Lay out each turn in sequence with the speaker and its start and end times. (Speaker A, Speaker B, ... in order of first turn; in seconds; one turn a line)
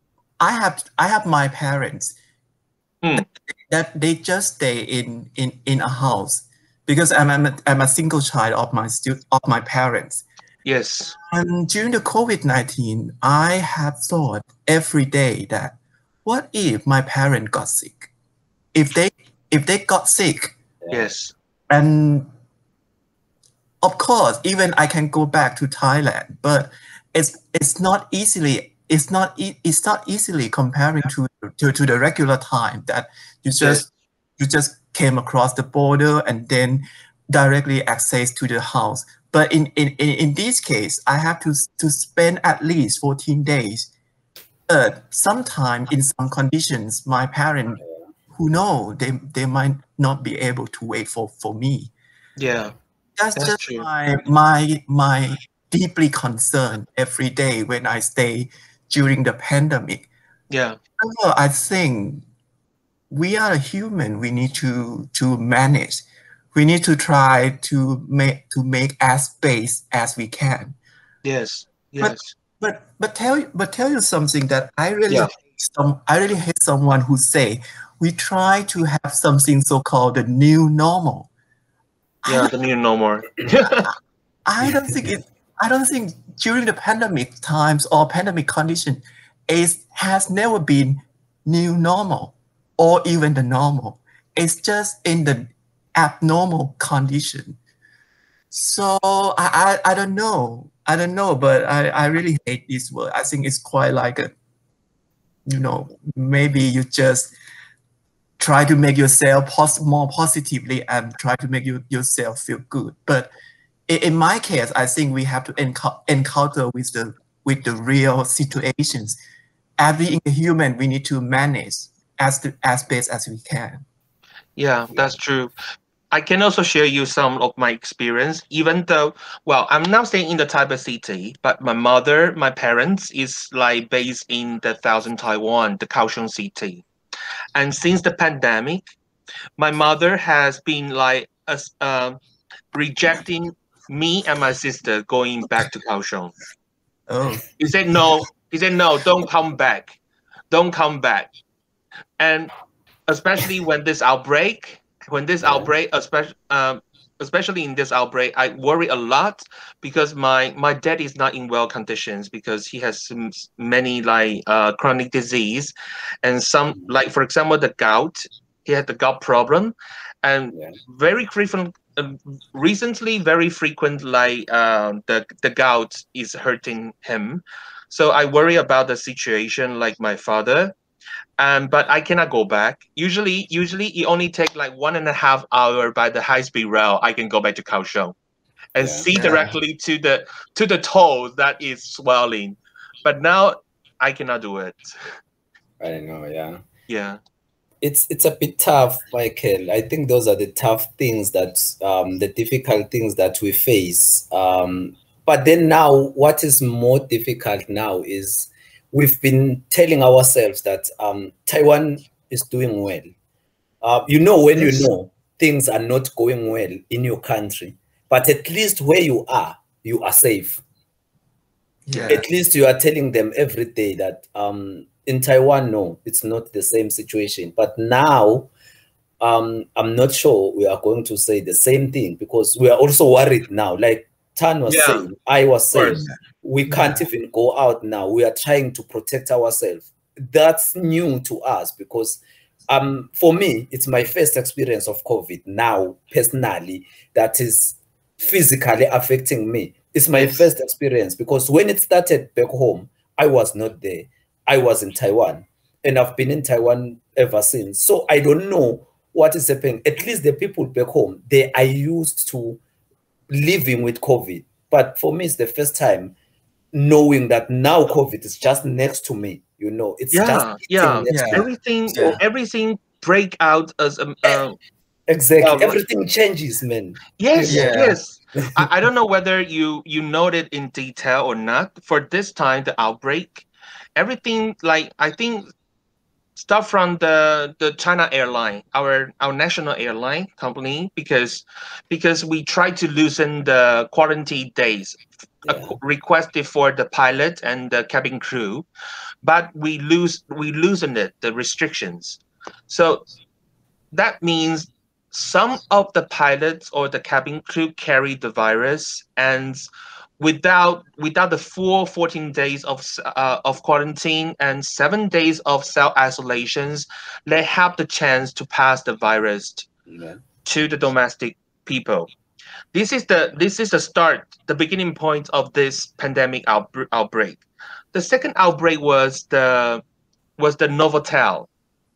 Speaker A: 0.4-2.1
Speaker A: 3.7-10.2
Speaker B: 10.6-11.2
Speaker A: 11.2-18.1
Speaker A: 18.7-20.5
Speaker B: 20.9-21.3
Speaker A: 21.7-22.3
Speaker A: 23.8-33.9
Speaker B: 33.6-33.9
Speaker A: 34.4-43.9
Speaker A: 44.7-47.8
Speaker A: 48.3-51.9
Speaker B: 52.4-52.7
Speaker A: 53.2-60.1
Speaker B: 53.4-53.9
Speaker B: 60.5-60.8
Speaker A: 61.0-62.2
Speaker A: 63.1-70.8
Speaker B: 71.2-72.3
Speaker A: 72.0-81.3
Speaker A: 82.2-82.5
Speaker B: 82.3-83.9
Speaker A: 84.5-97.6
Speaker A: 98.5-104.3
Speaker A: 105.5-107.3
Speaker A: 108.4-113.3
Speaker A: 113.9-119.2
Speaker A: 119.8-123.8
Speaker B: 124.6-125.5
Speaker B: 126.1-136.8
Speaker B: 137.5-138.9
Speaker B: 139.6-142.2
Speaker B: 142.7-146.3
Speaker A: 147.1-147.4
Speaker B: 147.6-150.0
Speaker B: 150.5-151.3
Speaker B: 152.2-152.5
Speaker B: 153.1-180.8
Speaker C: 155.4-155.7
Speaker C: 170.5-170.8
Speaker B: 181.4-188.1
Speaker B: 188.7-194.9
Speaker C: 188.8-189.5
Speaker C: 195.8-196.6
Speaker B: 196.9-197.2
Speaker C: 197.8-213.1
Speaker C: 213.8-220.6
Speaker A: 214.6-214.9
Speaker A: 221.9-222.2
Speaker C: 222.0-228.5
Speaker C: 229.2-262.6
Speaker B: 234.7-235.1
Speaker B: 235.7-236.0
Speaker A: 236.1-237.0
Speaker C: 263.3-266.1
Speaker C: 266.7-272.1
Speaker B: 270.1-274.6
Speaker A: 271.1-272.2
Speaker C: 275.1-277.8
Speaker B: 275.4-275.8
Speaker B: 277.2-285.5
Speaker A: 277.5-278.0
Speaker C: 278.4-278.6
Speaker B: 286.4-298.6
Speaker C: 295.4-295.8
Speaker B: 299.2-303.1
Speaker B: 303.9-309.6
Speaker B: 310.2-319.7
Speaker C: 319.9-320.2
Speaker B: 320.4-322.1
Speaker B: 322.7-329.8
Speaker B: 330.4-331.5